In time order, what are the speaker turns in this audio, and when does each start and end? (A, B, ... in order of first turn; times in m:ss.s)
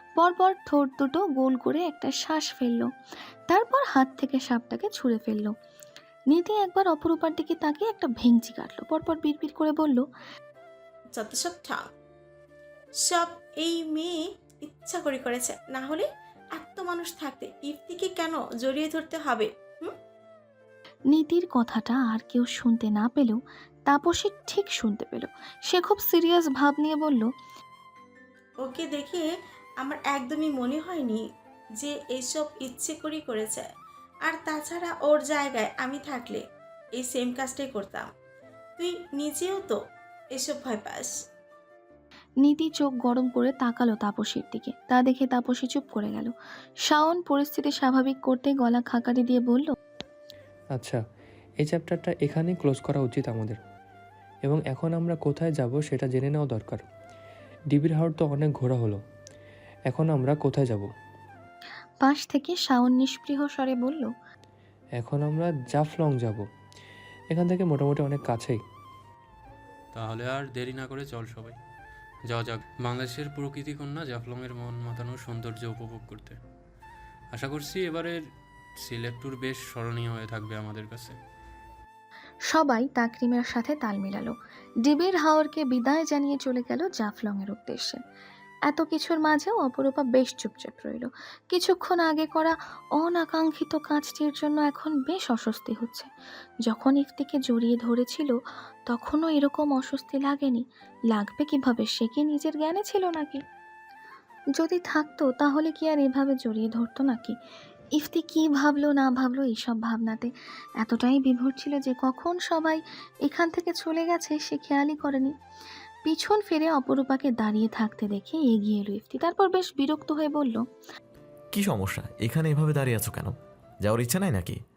0:00.2-0:02.9 A
0:03.5-0:05.5 A
0:06.3-0:10.0 A
0:11.2-0:11.8 B
0:13.0-0:19.9 B
0:21.1-0:27.3 A
0:28.6-0:29.3 B
0:29.8-0:31.2 B
0:31.8-0:33.7 B
0:34.3-0:36.4 B
0:37.0-0:38.1 B
0:38.8-0:39.8 B
0:40.3-0:41.1 B
0:42.4-0:46.3 A
0:46.9-0:49.7 A
0:51.6-0:53.6 C
0:54.4-0:56.8 C
0:57.7-0:59.0 C
0:59.9-1:00.9 C
1:02.0-1:04.1 A
1:05.0-1:06.4 C
1:07.3-1:08.6 C
1:09.9-1:11.6 D
1:12.3-1:16.4 D
1:17.3-1:18.2 D
1:18.8-1:21.2 D
1:22.5-1:28.0 A
1:28.7-1:36.1 A
1:36.7-1:38.3 A
1:38.9-1:43.4 A
1:44.6-1:47.4 A
1:48.0-1:55.3 A
1:56.1-2:00.6 A
2:01.5-2:04.6 E